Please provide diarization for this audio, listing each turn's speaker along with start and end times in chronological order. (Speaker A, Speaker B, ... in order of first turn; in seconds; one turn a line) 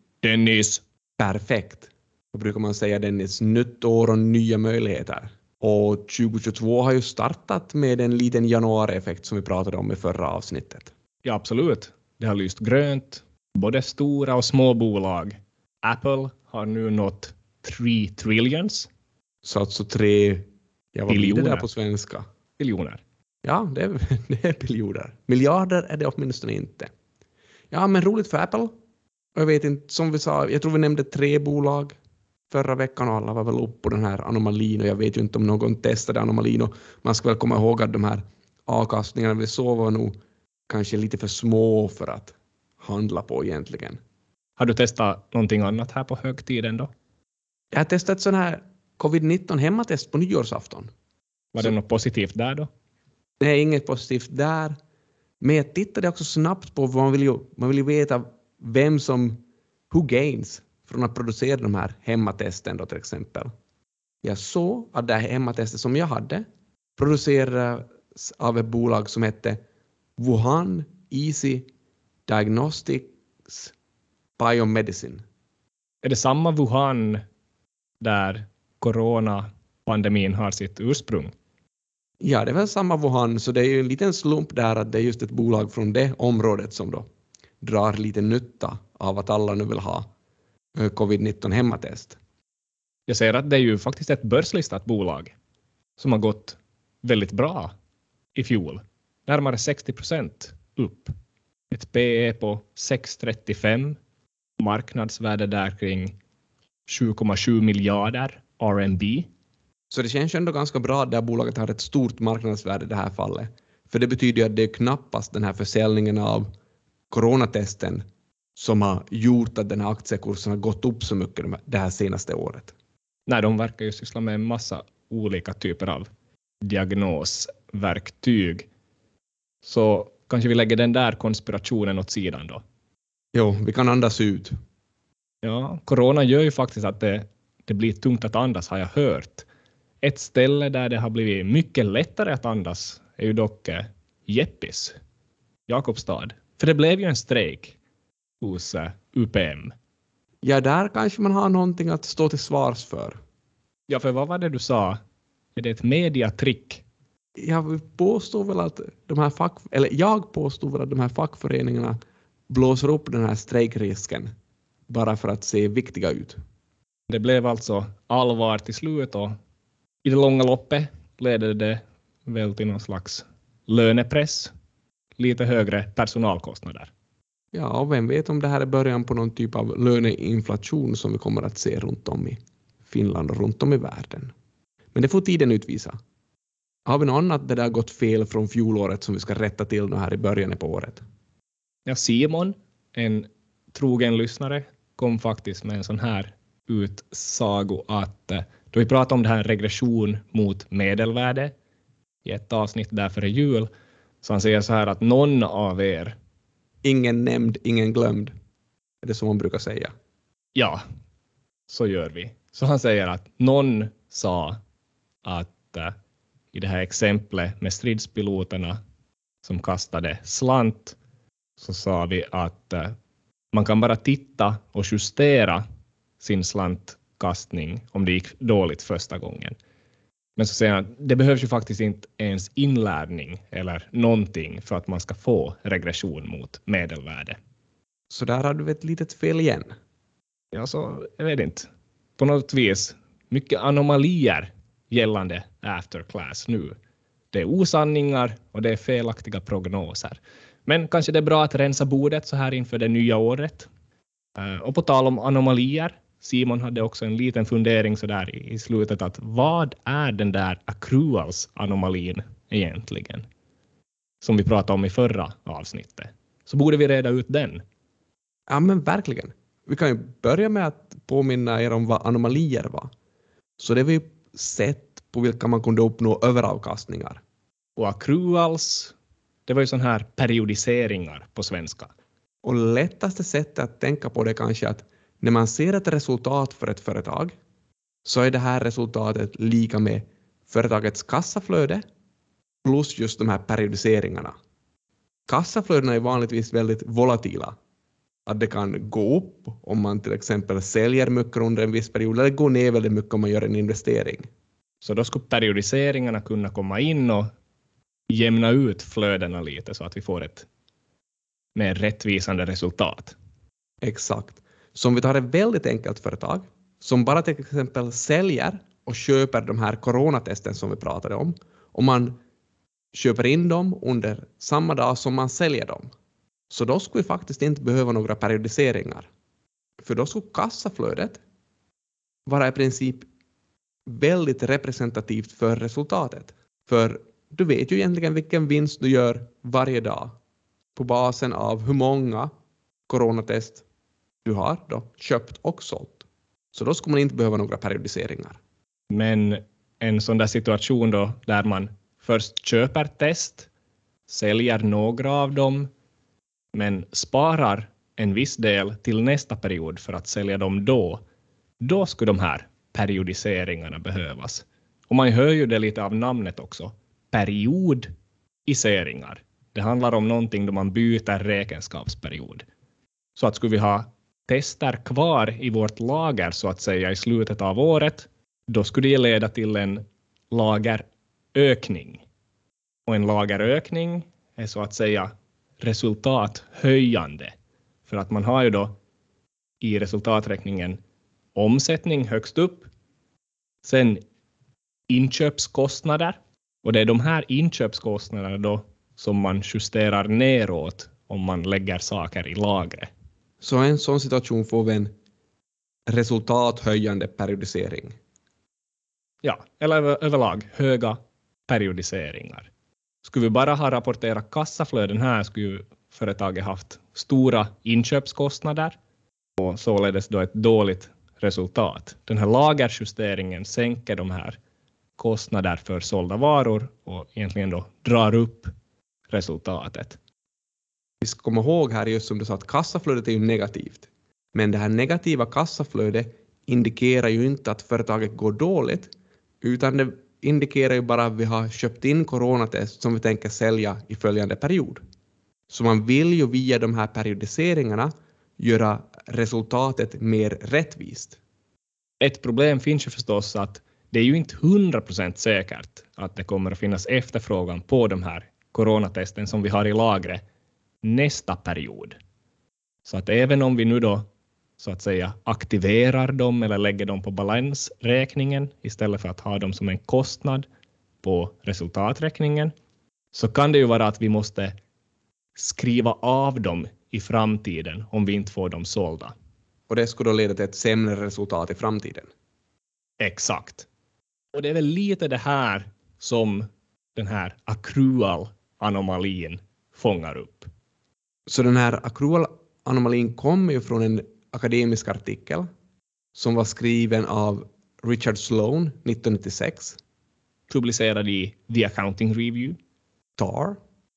Speaker A: 0.2-0.8
Speaker B: 1.2-10.9
Speaker A: 11.2-18.9
Speaker B: 19.4-22.2
Speaker A: 21.1-21.7
Speaker A: 22.6-23.0
Speaker B: 23.4-26.9
Speaker B: 27.7-28.7
Speaker B: 29.4-32.0
Speaker B: 32.5-40.1
Speaker B: 40.7-44.0
Speaker A: 44.6-46.9
Speaker B: 47.7-50.9
Speaker A: 51.5-52.7
Speaker B: 53.4-54.8
Speaker B: 55.4-59.4
Speaker B: 59.9-63.5
Speaker B: 64.2-66.5
Speaker B: 67.0-69.6
Speaker B: 70.2-71.7
Speaker B: 72.3-73.7
Speaker B: 74.4-75.2
Speaker A: 76.0-77.2
Speaker A: 78.0-81.3
Speaker B: 82.2-87.0
Speaker B: 87.6-90.1
Speaker B: 90.8-92.2
Speaker A: 93.1-95.3
Speaker A: 96.0-97.7
Speaker A: 98.3-101.1
Speaker A: 101.7-104.0
Speaker A: 104.6-106.1
Speaker A: 106.9-109.3
Speaker B: 109.9-116.5
Speaker B: 117.1-118.0
Speaker B: 118.6-122.7
Speaker A: 123.3-126.1
Speaker A: 126.6-128.7
Speaker A: 129.6-132.6
Speaker B: 133.3-134.6
Speaker A: 135.4-139.5
Speaker A: 140.0-145.0
Speaker A: 145.7-147.8
Speaker A: 148.4-149.7
Speaker B: 150.4-153.2
Speaker A: 153.9-155.0
Speaker A: 155.6-156.8
Speaker B: 157.4-162.0
Speaker B: 162.5-164.3
Speaker B: 164.9-166.4
Speaker A: 167.1-169.3
Speaker A: 170.0-174.5
Speaker A: 175.2-176.9
Speaker B: 177.5-184.3
Speaker B: 184.9-186.0
Speaker B: 186.9-191.0
Speaker A: 191.9-201.6
Speaker A: 202.2-203.7
Speaker A: 204.2-206.2
Speaker B: 206.8-208.3
Speaker B: 209.0-209.9
Speaker A: 210.6-210.8
Speaker A: 211.7-214.6
Speaker A: 215.2-215.9
Speaker A: 216.5-218.8
Speaker A: 219.4-221.0
Speaker A: 221.6-222.9
Speaker A: 223.5-225.6
Speaker A: 226.2-229.6
Speaker A: 230.4-237.4
Speaker B: 238.1-239.7
Speaker A: 240.5-246.8
Speaker A: 247.3-253.7
Speaker A: 254.4-263.2
Speaker A: 264.2-267.6
Speaker B: 268.5-272.9
Speaker B: 273.6-277.2
Speaker A: 277.8-278.9
Speaker A: 279.5-281.9
Speaker B: 282.4-287.3
Speaker B: 288.1-291.8
Speaker B: 292.6-294.4
Speaker B: 295.3-297.6
Speaker B: 298.3-304.3
Speaker A: 304.8-307.3
Speaker A: 308.1-310.5
Speaker A: 311.6-313.2
Speaker B: 313.8-322.2
Speaker B: 322.9-325.9
Speaker B: 326.5-329.1
Speaker B: 329.8-331.2
Speaker B: 332.3-333.1
Speaker B: 333.9-340.2
Speaker B: 340.8-342.3
Speaker B: 342.9-343.6
Speaker B: 344.2-348.4
Speaker A: 348.9-353.5
Speaker A: 354.1-355.7
Speaker A: 356.5-361.0
Speaker A: 361.6-367.9
Speaker A: 368.5-372.5
Speaker A: 373.2-382.1
Speaker A: 382.9-387.3
Speaker A: 387.9-388.8
Speaker A: 389.6-390.8
Speaker A: 391.4-392.7
Speaker A: 393.6-394.0
Speaker A: 394.9-402.9
Speaker B: 403.4-404.9
Speaker B: 405.9-407.9
Speaker A: 409.2-412.5
Speaker A: 413.0-418.8
Speaker A: 419.4-424.4
Speaker A: 425.0-428.5
Speaker A: 429.1-430.0
Speaker B: 431.0-444.8
Speaker B: 445.5-451.2
Speaker A: 452.0-460.2
Speaker A: 460.8-462.0
Speaker A: 462.8-470.5
Speaker A: 471.0-472.5
Speaker A: 473.1-474.5
Speaker A: 475.4-479.1
Speaker B: 479.7-482.1
Speaker A: 483.0-483.7
Speaker A: 484.3-490.5
Speaker B: 491.3-495.5
Speaker B: 496.1-499.8
Speaker A: 500.5-502.6
Speaker B: 503.2-503.6